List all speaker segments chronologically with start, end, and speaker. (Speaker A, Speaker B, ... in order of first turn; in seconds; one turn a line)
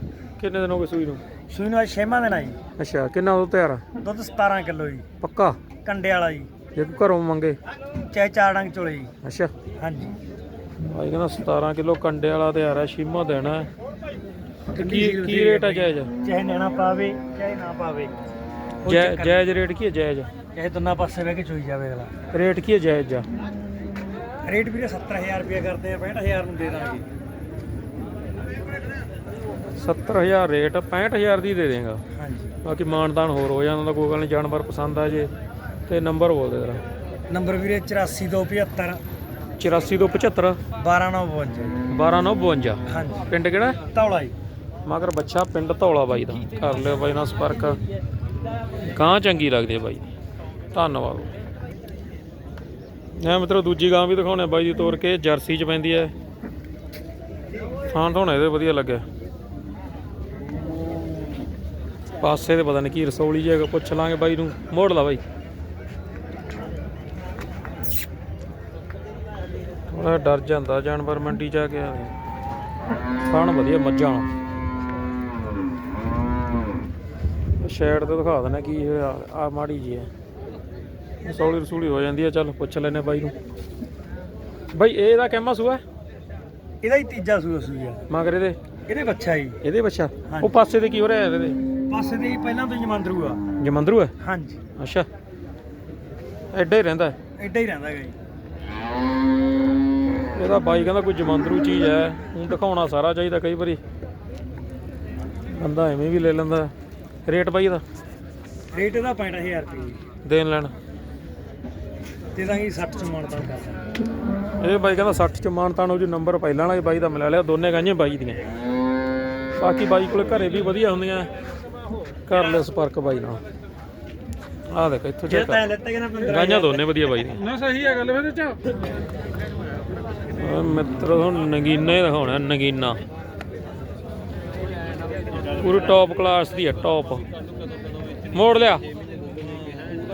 Speaker A: 0.4-1.2
Speaker B: 1.5-2.6
Speaker A: 2.8-3.8
Speaker B: 4.0-5.0
Speaker A: 5.2-5.6
Speaker B: 5.8-6.5
Speaker A: 6.7-7.6
Speaker B: 8.1-9.1
Speaker A: 9.2-9.5
Speaker B: 9.8-10.2
Speaker A: 10.9-13.7
Speaker B: 14.7-18.1
Speaker A: 14.7-16.1
Speaker B: 18.8-19.4
Speaker A: 18.8-20.3
Speaker B: 20.5-22.1
Speaker A: 22.3-23.3
Speaker B: 24.4-27.1
Speaker A: 29.8-32.0
Speaker B: 32.1-32.5
Speaker A: 32.6-35.3
Speaker A: 35.9-36.8
Speaker B: 37.3-39.0
Speaker A: 39.6-40.6
Speaker B: 40.8-41.8
Speaker A: 41.9-43.8
Speaker B: 42.9-43.3
Speaker B: 43.9-44.3
Speaker A: 44.9-47.8
Speaker A: 48.9-50.1
Speaker A: 50.7-51.3
Speaker A: 53.2-56.1
Speaker A: 57.9-59.0
Speaker A: 62.2-65.2
Speaker A: 69.9-72.1
Speaker A: 73.3-74.3
Speaker A: 77.6-80.1
Speaker A: 81.2-83.3
Speaker A: 84.7-85.8
Speaker B: 86.8-88.0
Speaker A: 88.1-88.6
Speaker B: 88.9-89.6
Speaker A: 89.6-91.6
Speaker B: 90.2-90.5
Speaker B: 91.9-93.4
Speaker A: 93.6-94.1
Speaker B: 94.2-94.6
Speaker A: 94.8-95.1
Speaker A: 96.5-97.2
Speaker B: 97.4-98.2
Speaker A: 100.3-103.8
Speaker A: 105.5-106.7
Speaker A: 107.3-107.8
Speaker B: 108.7-110.0
Speaker A: 110.2-110.7
Speaker B: 112.3-113.8
Speaker A: 114.6-118.4
Speaker A: 119.6-121.3
Speaker A: 122.3-123.4
Speaker A: 124.7-125.7
Speaker B: 125.3-126.8
Speaker A: 126.2-127.5
Speaker A: 130.4-133.0
Speaker A: 135.6-137.2
Speaker A: 138.3-138.8